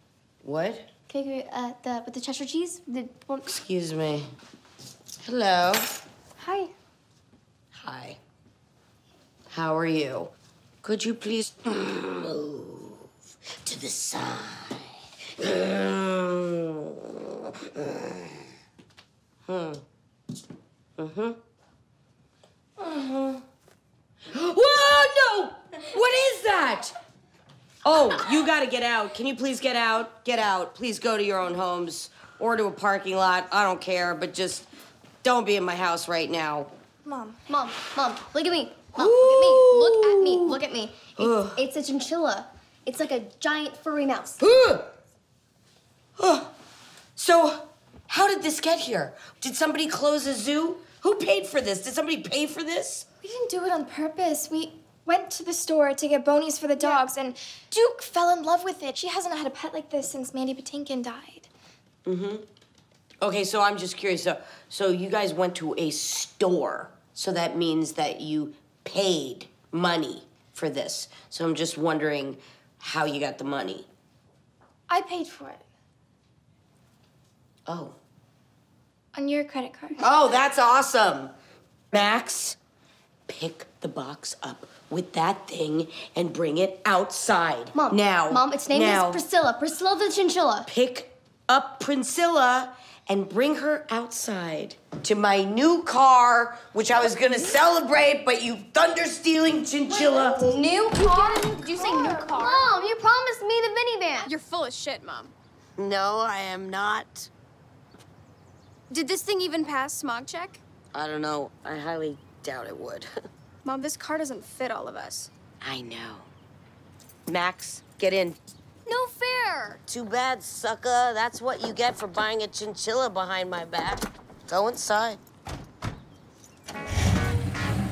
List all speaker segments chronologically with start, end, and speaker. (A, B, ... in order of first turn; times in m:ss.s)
0:00.4-0:00.9 A
0:01.1-0:03.6 B
0:03.5-0:04.3 A
0:05.2-0:05.9 A
0:06.4-0:06.7 B
0:07.7-0:08.2 A
0:09.5-0:10.3 A
0:10.8-0:13.1 A
0:13.6-0:18.3 A
0:19.5-0:19.8 A
0:21.0-0:21.4 A
0:22.8-0:23.4 A
0:24.3-0:26.9 A
0:27.8-0:34.7 A
0:35.2-0:36.7 A
0:37.0-0:37.4 C
0:37.5-0:44.4 B
0:39.0-0:40.6 A
0:41.2-0:41.6 A
0:44.4-0:44.9 A
0:46.2-0:46.5 A
0:47.2-0:53.1 A
0:53.2-1:01.5 C
1:02.1-1:02.5 A
1:03.2-1:13.9 A
1:14.9-1:15.6 C
1:17.7-1:18.0 A
1:19.2-1:20.0 C
1:20.0-1:21.3 A
1:21.9-1:22.6 A
1:23.3-1:29.2 A
1:27.7-1:30.7 B
1:30.7-1:40.5 A
1:39.9-1:44.3 B
1:40.9-1:42.6 D
1:41.5-1:42.2 C
1:44.2-1:45.3 D
1:45.8-1:47.3 A
1:48.9-1:50.6 D
1:50.9-1:53.1 A
1:53.6-1:55.3 D
1:55.6-1:56.3 A
1:57.3-1:58.4 A
1:58.9-1:59.8 B
1:59.9-2:05.2 A